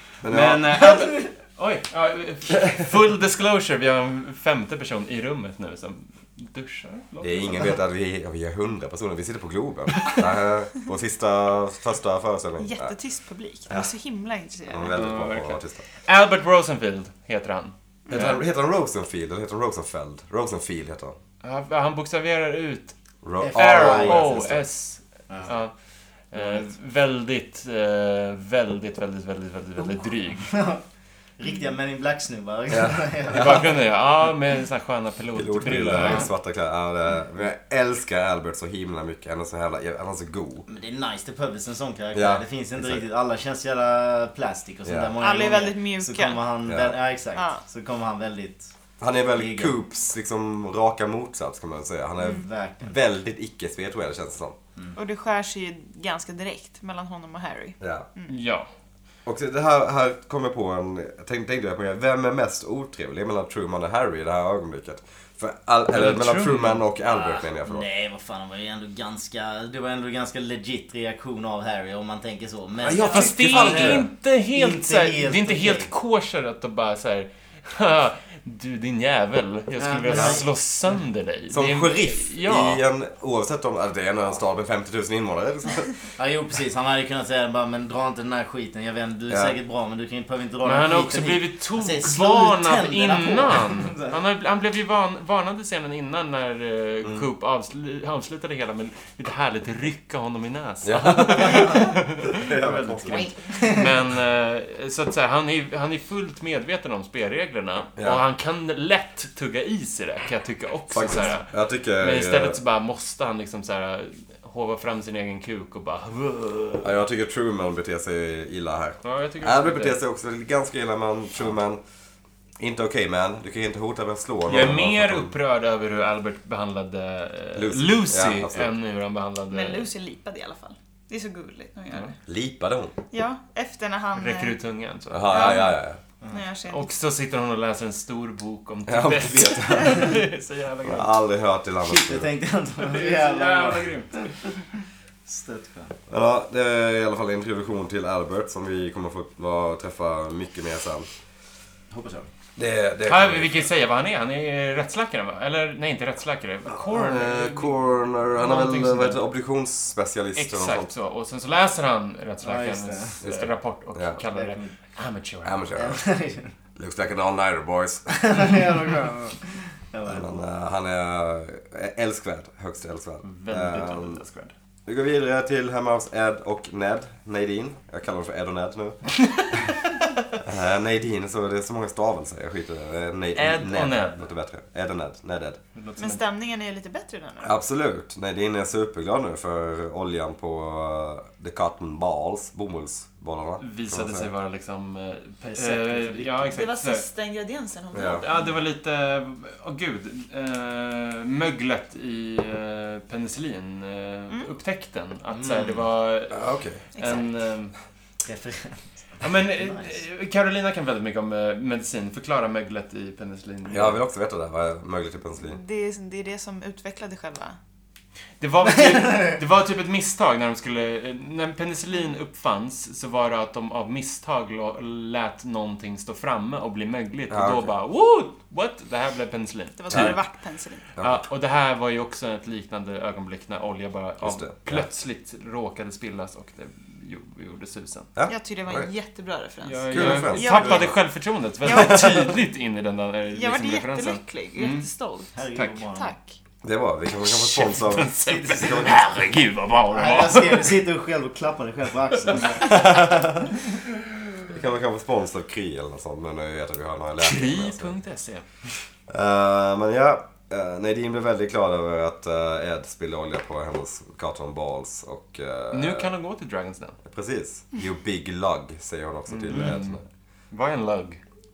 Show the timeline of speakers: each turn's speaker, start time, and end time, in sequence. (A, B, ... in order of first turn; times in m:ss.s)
0:00.2-0:00.8 A
0:00.2-0:07.7 B
0:07.2-0:12.9 A
0:12.6-0:15.0 C
0:14.7-0:15.8 A
0:14.9-0:18.4 B
0:18.1-0:18.3 C
0:18.1-0:21.2 A
0:21.4-0:23.0 B
0:23.2-0:24.6 A
0:23.4-0:24.5 D
0:23.5-0:25.7 B
0:25.3-0:25.5 D
0:26.3-0:30.5 B
0:26.4-0:26.6 D
0:30.5-0:30.8 D
0:31.4-0:33.7 D
0:32.7-0:33.6 A
0:33.3-0:36.3 B
0:35.3-0:40.7 A
0:40.7-0:48.7 D
0:42.1-0:43.0 A
0:44.8-0:45.1 A
0:45.2-0:46.4 C
0:46.7-0:47.0 A
0:47.3-0:47.6 C
0:49.0-0:54.6 A
0:49.3-0:49.7 D
0:52.2-0:53.0 D
0:54.9-0:58.3 C
0:57.8-0:58.1 A
0:58.3-0:58.7 B
0:59.2-1:07.8 A
1:05.9-1:06.8 B
1:07.0-1:15.9 D
1:12.8-1:14.1 A
1:13.0-1:22.8 B
1:19.8-1:20.4 D
1:20.1-1:20.4 A
1:21.5-1:26.0 A
1:26.2-1:34.2 D
1:30.6-1:56.9 B
1:40.8-1:43.3 A
1:43.1-1:43.9 D
1:48.0-1:48.2 A
1:50.9-1:52.6 A
1:56.8-2:01.8 A
1:59.0-2:00.0 B
2:02.6-2:05.3 A
2:04.5-2:09.9 B
2:07.6-2:08.7 A
2:09.5-2:12.2 C
2:12.2-2:12.9 A
2:13.1-2:14.6 C
2:14.1-2:15.7 B
2:15.1-2:16.0 A
2:15.3-2:15.8 C
2:16.3-2:16.9 C
2:16.7-2:21.1 B
2:18.9-2:20.2 A
2:20.8-2:22.3 A
2:21.8-2:24.6 D
2:22.8-2:24.4 B
2:25.2-2:26.0 D
2:26.1-2:31.1 A
2:31.9-2:32.3 D
2:32.6-2:33.7 A
2:33.0-2:39.2 B
2:36.8-2:40.9 A
2:40.4-2:45.7 B
2:42.4-2:43.2 D
2:43.2-2:44.2 A
2:44.3-2:44.7 D
2:45.4-2:46.0 A
2:45.7-2:46.5 D
2:46.8-2:48.1 A
2:48.1-2:50.3 D
2:50.0-2:54.2 A
2:53.2-2:54.5 B
2:54.8-2:59.7 A
3:00.4-3:05.6 A
3:03.3-3:04.3 B
3:05.7-3:06.2 B
3:06.0-3:07.5 C
3:07.4-3:14.3 A
3:13.6-3:17.0 B
3:15.4-3:16.6 D
3:16.5-3:18.5 C
3:17.9-3:18.2 A
3:18.0-3:27.7 B
3:25.3-3:25.8 D
3:26.3-3:26.8 A
3:27.0-3:27.3 C
3:28.2-3:30.0 D
3:29.2-3:34.0 B
3:33.7-3:35.6 A
3:35.4-3:37.6 C
3:38.4-3:50.2 B
3:47.3-3:47.7 A
3:49.8-3:50.9 C
3:49.9-3:50.2 A
3:51.0-3:51.2 A
3:51.0-3:58.1 B
3:54.2-3:54.8 A
3:58.2-3:58.9 A
3:58.3-4:00.9 C
3:59.6-4:04.9 B
3:59.9-4:00.9 A
4:01.6-4:02.4 C
4:01.8-4:02.0 A
4:03.3-4:05.3 C
4:05.3-4:06.1 D
4:05.9-4:06.4 C
4:06.6-4:09.1 A
4:07.2-4:10.8 B
4:08.3-4:09.0 D
4:09.9-4:13.0 D
4:12.6-4:13.5 A
4:14.5-4:17.9 A
4:17.2-4:18.4 B
4:19.1-4:26.1 A
4:25.7-4:27.0 B
4:27.0-4:30.0 A
4:29.3-4:31.2 B